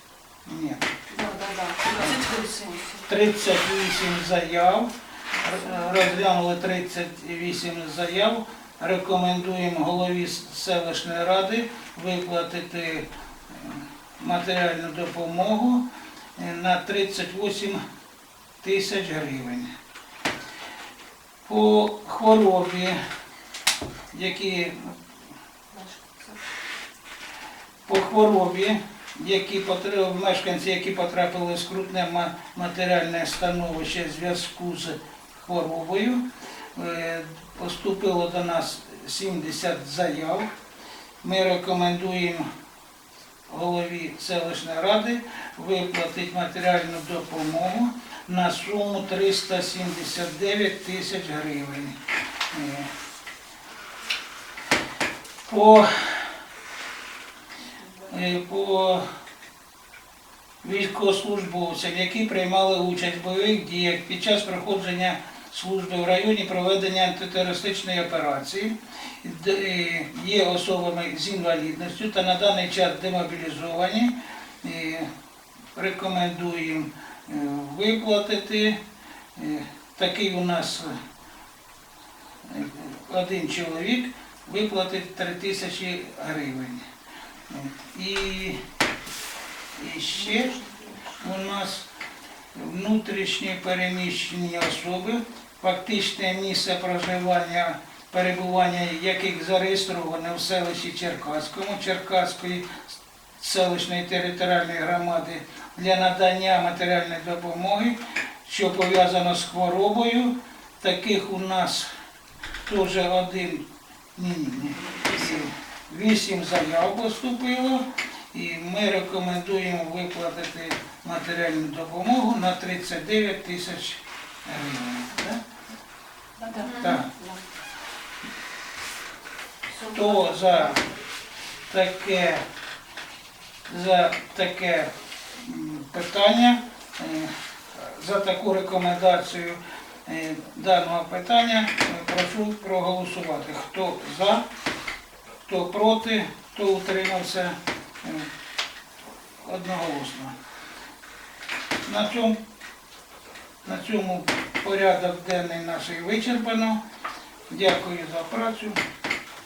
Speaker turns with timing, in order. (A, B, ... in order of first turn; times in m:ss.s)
0:00.4-0:00.9 A
0:01.1-0:03.1 B
0:03.0-0:15.8 A
0:05.4-0:06.0 B
0:16.4-0:17.8 A
0:18.6-0:19.7 A
0:21.4-0:23.0 A
0:24.1-0:25.0 A
0:25.7-0:26.4 B
0:27.8-0:36.2 A
0:36.7-0:40.5 A
0:41.2-0:42.5 A
0:43.5-0:52.0 A
0:52.5-0:52.9 A
0:55.4-0:56.3 A
0:58.0-0:59.0 A
1:00.6-1:15.1 A
1:15.7-1:18.8 A
1:19.3-1:21.0 A
1:22.4-1:26.9 A
1:27.5-1:28.6 A
1:29.8-1:30.6 A
1:30.1-1:31.2 B
1:31.2-1:31.9 A
1:32.5-1:42.8 A
1:43.4-1:51.9 A
1:52.6-2:05.4 A
1:54.8-1:55.3 B
2:06.4-2:07.4 B
2:06.8-2:07.1 A
2:09.8-2:10.9 B
2:09.8-2:10.9 A
2:11.7-2:12.4 A
2:13.7-2:24.4 A
2:25.4-2:28.3 A
2:29.4-2:30.4 A
2:31.8-2:32.4 A
2:33.6-2:36.8 A
2:37.5-2:38.8 A